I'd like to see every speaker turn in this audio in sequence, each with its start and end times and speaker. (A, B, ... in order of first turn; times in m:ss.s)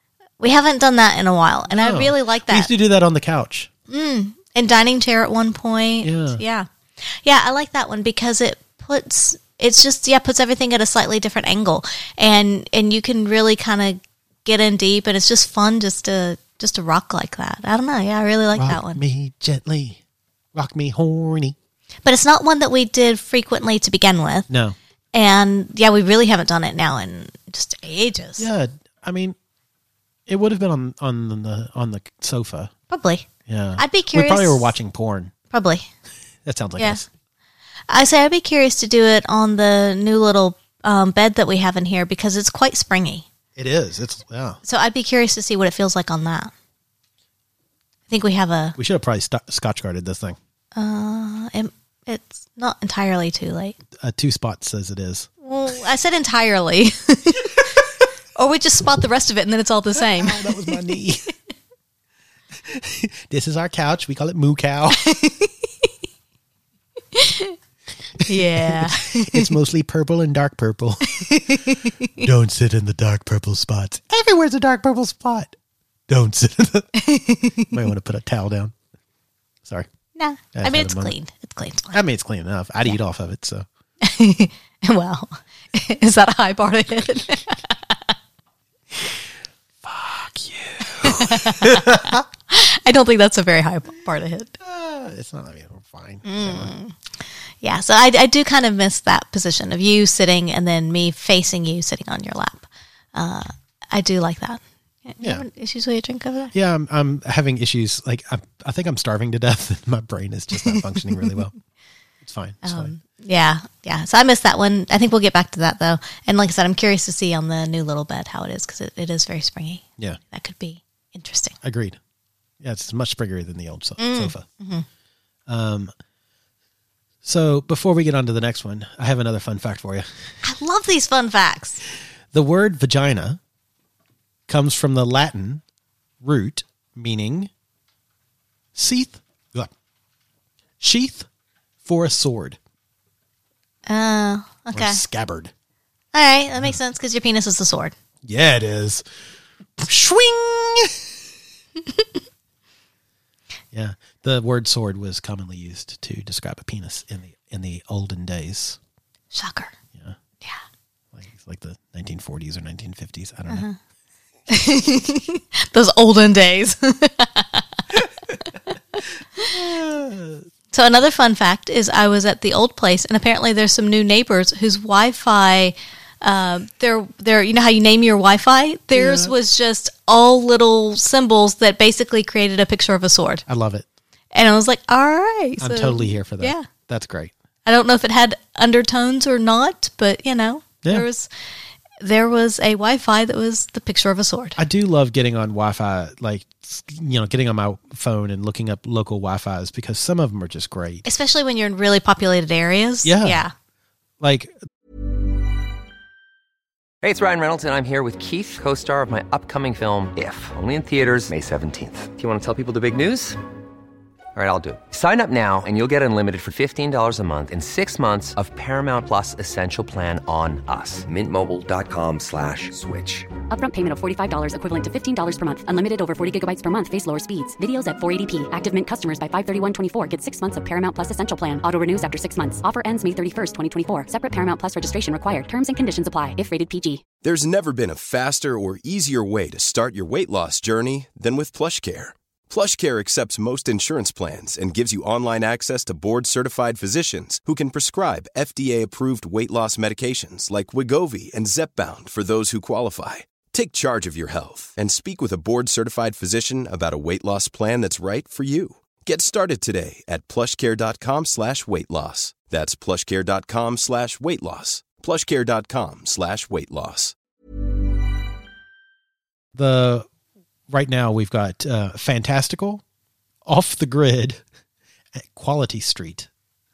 0:00.4-0:02.7 A
0:01.7-0:03.7 B
0:03.9-0:19.0 A
0:06.0-0:06.4 B
0:18.6-0:20.0 B
0:20.6-0:21.6 B
0:22.0-0:24.5 A
0:24.5-0:24.8 B
0:25.1-0:28.5 A
0:28.4-0:29.4 B
0:30.3-0:32.7 B
0:32.9-0:34.7 A
0:33.5-0:35.3 B
0:35.5-0:35.9 A
0:36.4-0:37.1 B
0:37.9-0:43.3 A
0:43.6-0:44.6 B
0:44.6-0:46.5 A
0:48.1-0:48.8 A
0:48.8-0:50.4 B
0:50.8-0:53.8 A
0:54.0-0:55.3 B
0:55.4-0:57.8 A
0:58.4-1:00.8 A
1:00.0-1:01.3 B
1:02.6-1:05.1 B
1:05.0-1:05.9 A
1:07.1-1:07.6 A
1:08.2-1:09.5 A
1:08.2-1:11.3 B
1:11.1-1:12.2 A
1:12.2-1:15.5 B
1:16.1-1:17.0 B
1:17.0-1:17.8 A
1:17.7-1:18.7 B
1:20.2-1:22.0 A
1:20.6-1:21.2 B
1:21.9-1:23.7 B
1:24.0-1:28.0 A
1:29.8-1:32.2 B
1:30.9-1:34.6 A
1:34.6-1:36.7 B
1:36.2-1:37.0 A
1:37.6-1:46.5 A
1:45.2-1:45.5 B
1:46.5-1:51.5 B
1:52.2-1:52.9 B
1:52.6-2:01.6 A
2:01.6-2:02.0 B
2:02.6-2:04.4 B
2:04.0-2:04.9 A
2:05.5-2:05.9 B
2:07.2-2:10.2 B
2:10.4-2:11.8 A
2:12.3-2:13.4 B
2:14.5-2:15.6 B
2:16.2-2:17.5 B
2:18.8-2:19.7 B
2:20.8-2:21.3 B
2:21.8-2:22.6 B
2:23.9-2:25.0 A
2:24.7-2:25.5 B
2:26.1-2:27.9 A
2:28.2-2:29.0 B
2:29.8-2:31.1 B
2:33.7-2:38.8 B
2:39.3-2:39.7 A
2:41.1-2:43.7 B
2:43.5-2:43.8 A
2:44.5-2:47.7 A
2:49.4-2:50.4 B
2:50.7-3:03.4 A
2:58.9-2:59.4 B
3:03.5-3:03.9 B
3:04.3-3:06.7 A
3:05.6-3:07.3 B
3:07.7-3:11.3 A
3:12.0-3:14.6 A
3:14.6-3:21.0 B
3:21.0-3:23.5 A
3:23.0-3:23.4 B
3:24.2-3:24.6 B
3:27.0-3:33.4 C
3:34.4-3:43.3 C
3:43.5-3:57.0 D
3:57.2-4:27.2 E
4:29.6-4:30.1 B
4:30.7-4:32.8 B
4:33.4-4:34.4 B
4:35.2-4:36.3 B